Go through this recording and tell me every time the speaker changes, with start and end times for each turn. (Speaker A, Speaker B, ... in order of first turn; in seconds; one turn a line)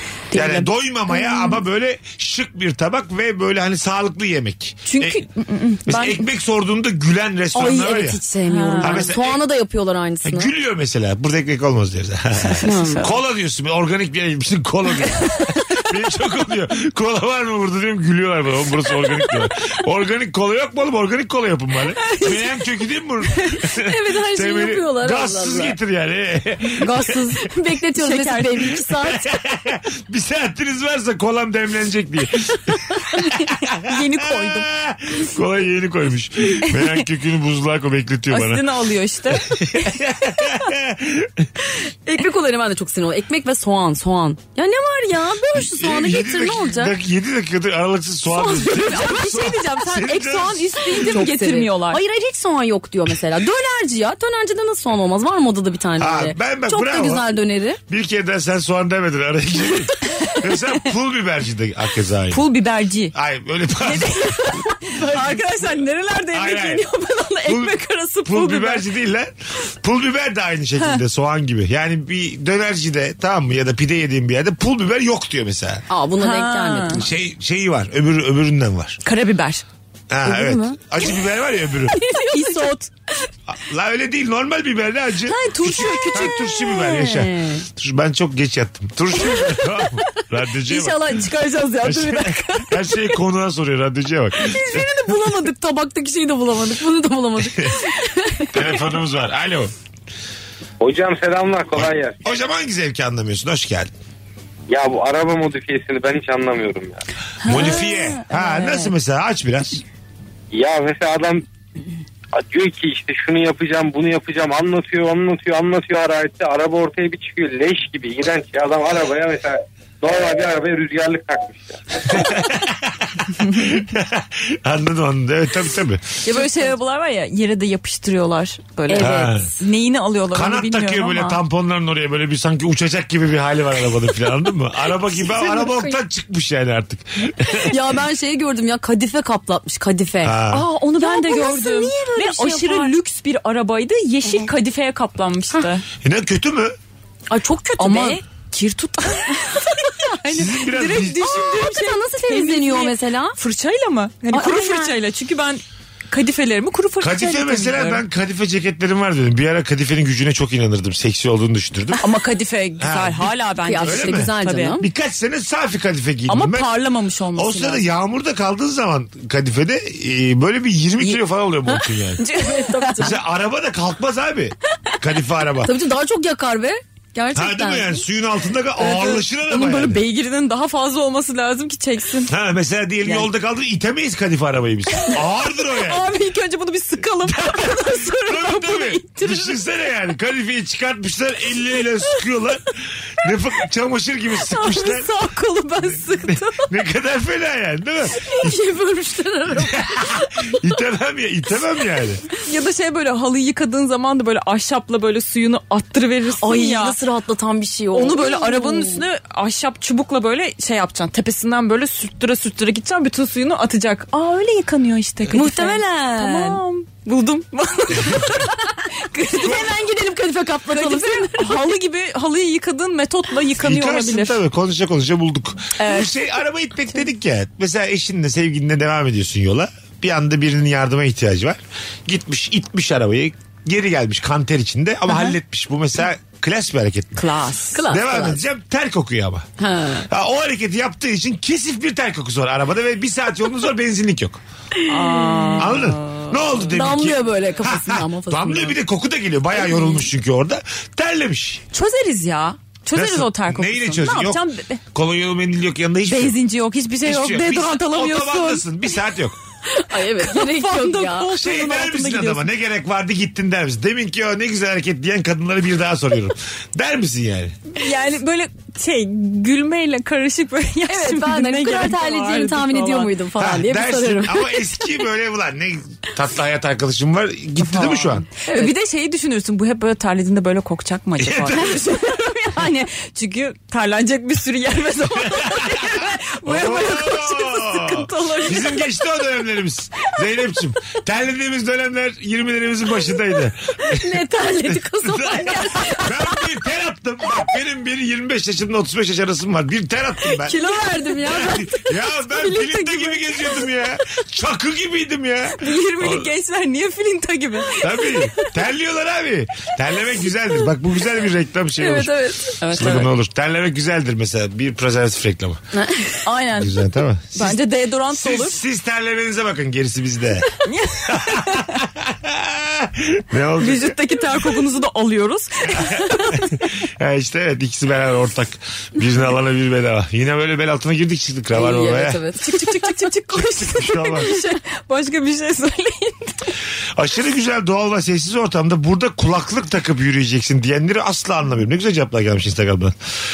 Speaker A: 0.3-0.7
Speaker B: 0.3-5.2
Speaker A: 4.8-6.2
Speaker B: 5.9-8.2
Speaker C: 7.5-10.5
Speaker A: 8.5-9.1
Speaker B: 8.8-9.4
Speaker B: 10.2-27.4
Speaker A: 12.4-13.2
Speaker C: 12.6-13.1
Speaker A: 22.0-22.4
Speaker A: 23.3-23.6
Speaker C: 23.8-25.8
Speaker C: 26.8-29.4
Speaker A: 28.0-28.8
Speaker B: 29.0-38.6
Speaker A: 33.8-34.7
Speaker A: 36.7-37.0
Speaker A: 38.3-40.0
Speaker B: 39.3-41.5
Speaker C: 42.0-46.9
Speaker B: 45.5-51.0
Speaker C: 48.3-49.6
Speaker A: 48.6-52.0
Speaker C: 50.8-57.8
Speaker B: 56.0-57.3
Speaker B: 57.9-62.4
Speaker A: 62.3-63.1
Speaker B: 63.1-64.2
Speaker A: 63.8-68.9
Speaker C: 64.8-65.5
Speaker B: 66.3-66.9
Speaker B: 67.5-75.9
Speaker C: 75.9-77.0
Speaker A: 76.2-77.0
Speaker B: 76.9-79.0
Speaker A: 79.0-79.6
Speaker B: 80.1-82.0
Speaker C: 80.3-80.8
Speaker C: 81.9-82.7
Speaker A: 82.2-82.9
Speaker B: 83.5-91.2
Speaker A: 85.2-86.9
Speaker C: 86.7-87.6
Speaker A: 90.7-93.2
Speaker B: 91.8-94.8
Speaker A: 94.4-95.2
Speaker C: 94.7-98.8
Speaker B: 98.5-99.7
Speaker D: 100.8-102.2
Speaker B: 101.8-103.9
Speaker D: 104.7-107.0
Speaker A: 107.4-108.9
Speaker B: 107.5-109.8
Speaker D: 110.5-111.5
Speaker D: 112.3-121.8
Speaker B: 122.1-126.1
Speaker A: 126.2-131.4
Speaker C: 126.3-126.7
Speaker C: 128.9-129.5
Speaker B: 129.0-129.5
Speaker B: 130.3-137.8
Speaker C: 135.2-136.0
Speaker C: 137.6-140.4
Speaker B: 140.2-140.7
Speaker A: 140.5-145.8
Speaker C: 141.0-142.9
Speaker B: 146.0-146.8
Speaker C: 147.3-148.2
Speaker A: 147.8-158.0
Speaker C: 149.4-149.9
Speaker B: 150.3-151.3
Speaker C: 151.1-153.4
Speaker C: 154.3-155.0
Speaker B: 157.0-162.0
Speaker A: 162.0-164.8
Speaker B: 162.8-166.7
Speaker C: 163.6-164.9
Speaker A: 166.3-167.8
Speaker B: 167.4-172.2
Speaker A: 172.2-173.1
Speaker C: 172.3-173.2
Speaker B: 173.0-175.7
Speaker C: 175.6-178.0
Speaker B: 177.3-180.0
Speaker A: 178.8-182.3
Speaker B: 182.3-186.1
Speaker A: 185.0-189.6
Speaker B: 187.3-195.1
Speaker A: 194.4-196.7
Speaker B: 196.1-198.6
Speaker C: 198.2-200.5
Speaker B: 199.6-202.2
Speaker A: 202.4-207.0
Speaker C: 206.4-209.0
Speaker A: 207.9-219.7
Speaker C: 215.3-216.6
Speaker C: 219.3-221.7
Speaker B: 219.4-219.7
Speaker A: 220.7-224.4
Speaker B: 223.6-237.2
Speaker A: 225.8-226.1
Speaker A: 237.2-237.8
Speaker C: 237.7-238.4
Speaker B: 237.9-239.5
Speaker C: 239.6-240.1
Speaker B: 240.1-244.4
Speaker C: 244.8-245.8
Speaker A: 244.9-246.8
Speaker B: 245.6-251.6
Speaker C: 246.7-248.8
Speaker C: 249.6-250.0
Speaker A: 251.7-254.8
Speaker B: 252.9-256.4
Speaker A: 256.1-258.6
Speaker B: 257.0-259.4
Speaker C: 259.7-261.4
Speaker A: 260.2-262.5
Speaker B: 261.3-267.6
Speaker A: 267.7-273.1
Speaker C: 270.9-274.6
Speaker B: 273.4-278.3
Speaker A: 277.6-288.9
Speaker C: 278.5-278.7
Speaker B: 281.2-281.9
Speaker B: 285.4-306.3
Speaker C: 293.9-296.1
Speaker C: 300.3-302.9
Speaker A: 302.5-303.1
Speaker A: 305.6-308.5
Speaker B: 307.8-312.2
Speaker C: 311.8-312.6
Speaker A: 312.6-313.1
Speaker B: 312.7-315.6
Speaker C: 315.7-316.2
Speaker A: 316.2-318.6
Speaker B: 316.6-320.5
Speaker A: 320.6-321.8
Speaker B: 321.1-324.0
Speaker A: 323.6-326.6
Speaker B: 325.7-332.2
Speaker C: 331.5-332.9
Speaker A: 332.4-336.5
Speaker B: 333.4-334.4
Speaker B: 337.0-343.0